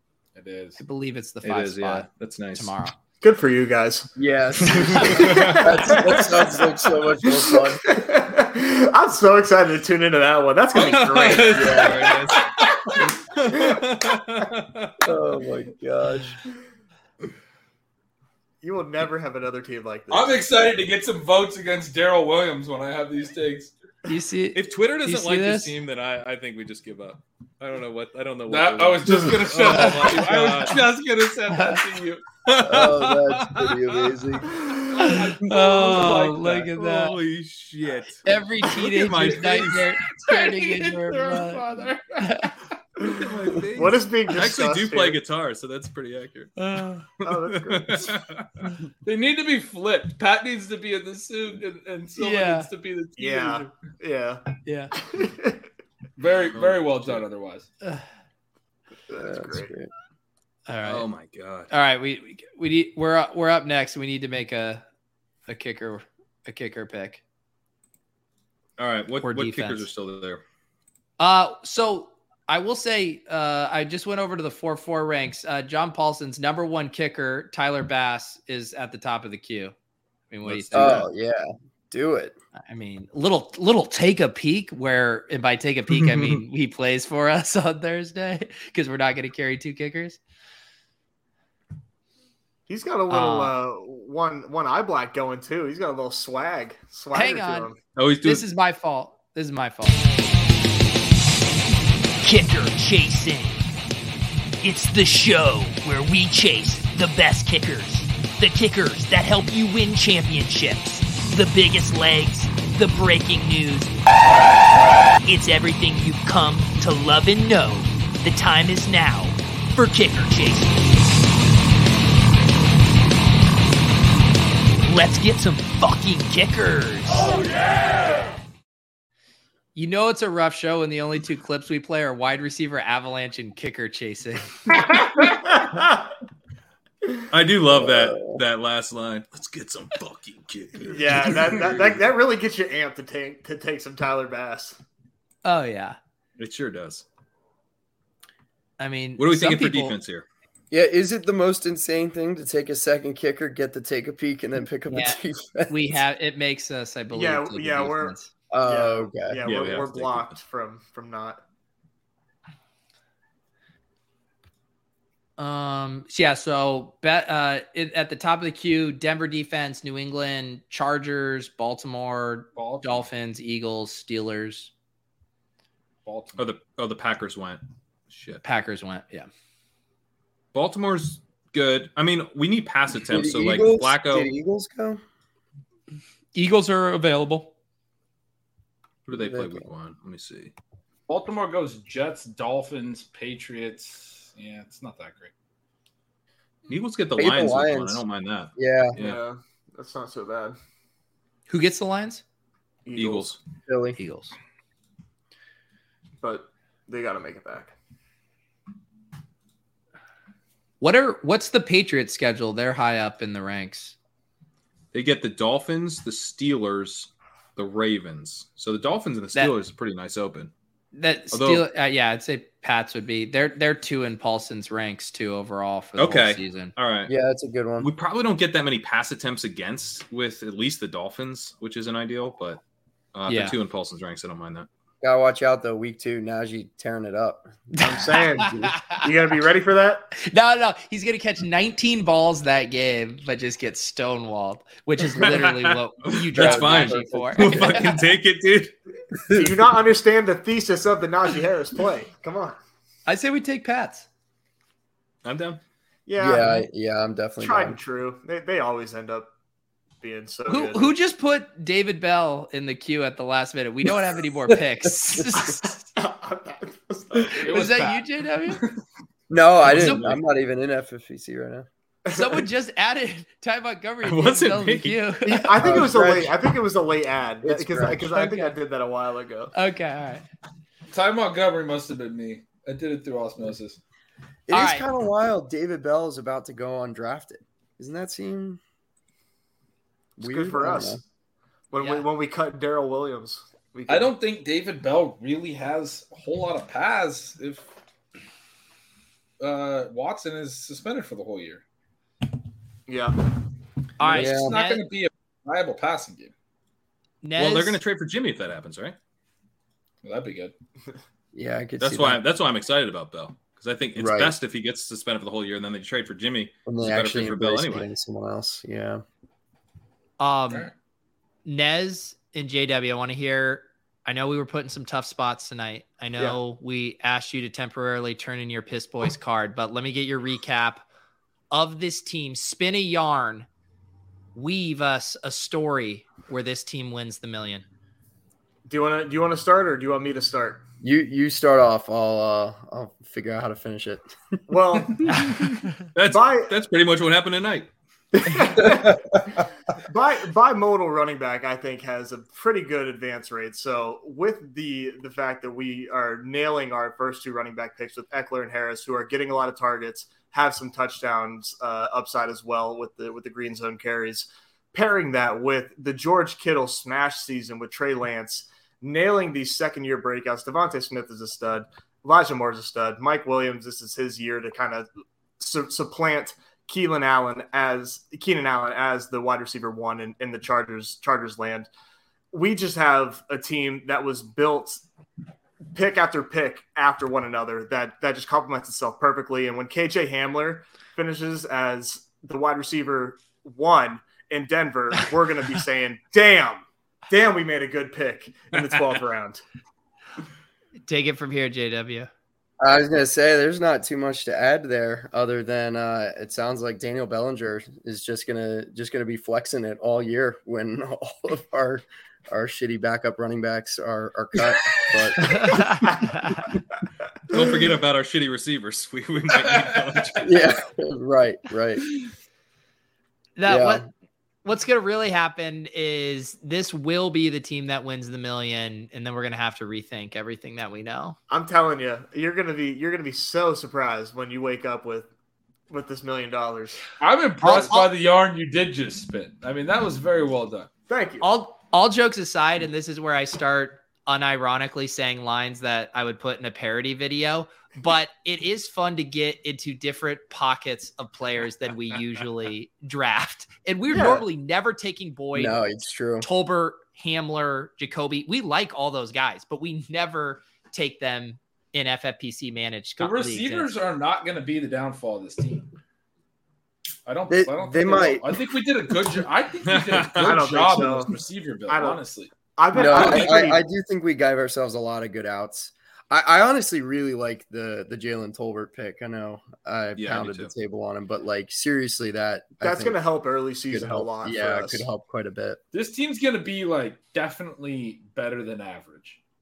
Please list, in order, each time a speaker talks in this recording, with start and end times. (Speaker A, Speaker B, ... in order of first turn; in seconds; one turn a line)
Speaker A: 0.3-0.8
Speaker B: 0.8-2.9
Speaker C: 1.4-2.8
Speaker D: 3.2-4.1
Speaker E: 4.2-8.0
Speaker C: 4.7-6.0
Speaker D: 4.9-6.7
Speaker D: 7.2-12.2
Speaker C: 10.7-15.1
Speaker E: 11.5-12.1
Speaker A: 12.3-12.7
Speaker D: 13.5-13.8
Speaker E: 15.0-16.4
Speaker D: 18.6-20.4
Speaker A: 20.1-23.7
Speaker B: 24.1-25.7
Speaker C: 24.5-30.9
Speaker A: 28.5-32.2
Speaker B: 31.5-31.8
Speaker C: 32.4-34.4
Speaker E: 32.6-34.6
Speaker A: 34.8-36.7
Speaker B: 34.9-37.2
Speaker C: 35.5-39.9
Speaker B: 38.2-41.6
Speaker A: 39.4-42.5
Speaker B: 42.2-42.5
Speaker D: 43.0-45.2
Speaker C: 43.1-48.7
Speaker B: 46.6-47.0
Speaker D: 47.2-48.2
Speaker A: 49.0-53.7
Speaker B: 52.2-52.7
Speaker D: 53.2-54.5
Speaker B: 54.6-54.9
Speaker D: 55.0-55.6
Speaker A: 56.2-57.7
Speaker C: 56.5-57.2
Speaker D: 59.1-59.7
Speaker E: 59.1-59.9
Speaker B: 60.7-61.1
Speaker C: 60.8-61.7
Speaker B: 61.7-64.8
Speaker B: 65.5-67.2
Speaker C: 68.8-70.4
Speaker B: 69.2-69.9
Speaker B: 71.2-79.7
Speaker B: 80.3-81.1
Speaker C: 80.5-81.0
Speaker E: 80.7-82.4
Speaker B: 82.6-90.2
Speaker C: 85.9-86.4
Speaker D: 92.7-97.8
Speaker B: 93.1-93.5
Speaker B: 97.1-97.7
Speaker C: 98.0-98.4
Speaker B: 98.2-100.0
Speaker F: 102.2-103.6
Speaker F: 104.6-113.9
Speaker F: 115.2-120.9
Speaker F: 124.8-127.3
Speaker B: 129.7-134.7
Speaker D: 135.5-135.9
Speaker C: 137.3-142.0
Speaker E: 137.7-138.4
Speaker D: 140.8-144.8
Speaker B: 145.4-146.0
Speaker C: 146.4-147.0
Speaker B: 148.8-149.9
Speaker C: 149.2-150.2
Speaker E: 150.7-156.0
Speaker B: 154.9-158.3
Speaker D: 157.1-161.4
Speaker E: 158.5-159.4
Speaker C: 159.4-160.3
Speaker B: 165.4-174.7
Speaker A: 172.5-173.0
Speaker A: 176.0-176.5
Speaker C: 176.4-178.4
Speaker B: 178.4-179.3
Speaker C: 180.5-184.3
Speaker E: 183.1-185.0
Speaker B: 186.3-187.5
Speaker C: 189.1-190.5
Speaker E: 189.1-189.7
Speaker A: 191.1-195.3
Speaker C: 196.7-199.2
Speaker E: 197.2-198.0
Speaker E: 198.6-199.0
Speaker D: 198.9-200.6
Speaker B: 201.5-202.2
Speaker D: 202.8-203.3
Speaker C: 202.9-203.4
Speaker E: 203.7-204.0
Speaker B: 204.0-204.3
Speaker D: 206.2-207.7
Speaker B: 210.8-213.9
Speaker C: 214.9-220.5
Speaker B: 220.9-226.7
Speaker C: 221.3-221.6
Speaker C: 226.0-227.1
Speaker E: 227.1-227.9
Speaker C: 227.8-232.6
Speaker C: 233.1-234.7
Speaker B: 233.3-233.5
Speaker E: 235.0-237.9
Speaker B: 237.8-239.1
Speaker D: 237.8-240.1
Speaker B: 240.2-247.9
Speaker C: 245.2-248.8
Speaker E: 246.3-247.9
Speaker D: 249.3-252.6
Speaker B: 253.1-254.1
Speaker C: 255.2-255.6
Speaker D: 256.1-256.6
Speaker E: 256.2-257.8
Speaker D: 257.4-259.3
Speaker D: 260.0-260.9
Speaker B: 260.5-265.9
Speaker D: 265.9-267.7
Speaker A: 267.3-268.8
Speaker B: 267.5-268.6
Speaker E: 269.3-271.7
Speaker C: 269.6-270.1
Speaker B: 269.7-270.1
Speaker D: 272.1-272.4
Speaker B: 272.1-275.6
Speaker C: 274.0-275.0
Speaker D: 275.2-279.5
Speaker E: 275.6-276.3
Speaker E: 277.4-278.1
Speaker B: 278.1-278.6
Speaker B: 279.5-280.2
Speaker A: 280.9-283.8
Speaker E: 284.5-288.6
Speaker B: 284.5-284.9
Speaker E: 290.2-291.0
Speaker D: 290.2-291.0
Speaker D: 291.7-294.1
Speaker B: 291.8-292.1
Speaker A: 293.9-297.7
Speaker A: 299.4-301.6
Speaker D: 302.9-303.2
Speaker B: 304.0-304.8
Speaker A: 304.0-306.3
Speaker E: 304.1-304.6
Speaker B: 307.2-307.8
Speaker C: 307.4-308.9
Speaker A: 310.0-310.5
Speaker E: 311.3-312.2
Speaker C: 311.8-317.9
Speaker E: 313.9-314.3
Speaker E: 316.7-319.0
Speaker B: 320.2-320.7
Speaker B: 321.4-330.8
Speaker B: 331.5-333.5
Speaker B: 334.3-337.6
Speaker D: 338.7-340.6
Speaker E: 340.8-344.1
Speaker D: 344.5-345.5
Speaker B: 345.1-345.4
Speaker C: 345.9-347.7
Speaker D: 346.1-346.5
Speaker D: 348.2-374.9
Speaker D: 375.4-381.7
Speaker D: 382.3-384.8
Speaker D: 385.7-399.4
Speaker B: 400.9-402.1
Speaker E: 402.6-415.7
Speaker B: 415.4-415.8
Speaker C: 417.3-420.5
Speaker E: 420.2-421.9
Speaker B: 423.4-423.8
Speaker E: 423.4-423.8
Speaker B: 424.4-431.2
Speaker D: 431.3-435.1
Speaker D: 435.7-436.9
Speaker A: 437.0-440.7
Speaker B: 437.4-437.9
Speaker D: 440.9-441.3
Speaker B: 441.2-455.6
Speaker D: 453.9-454.2
Speaker E: 455.3-456.3
Speaker B: 456.2-463.7
Speaker A: 463.0-465.7
Speaker A: 467.1-473.4
Speaker E: 467.3-468.4
Speaker C: 469.6-470.4
Speaker D: 470.2-472.0
Speaker D: 472.5-473.6
Speaker E: 472.7-483.0
Speaker C: 479.9-480.5
Speaker D: 482.6-484.9
Speaker E: 483.7-485.6
Speaker A: 485.7-489.2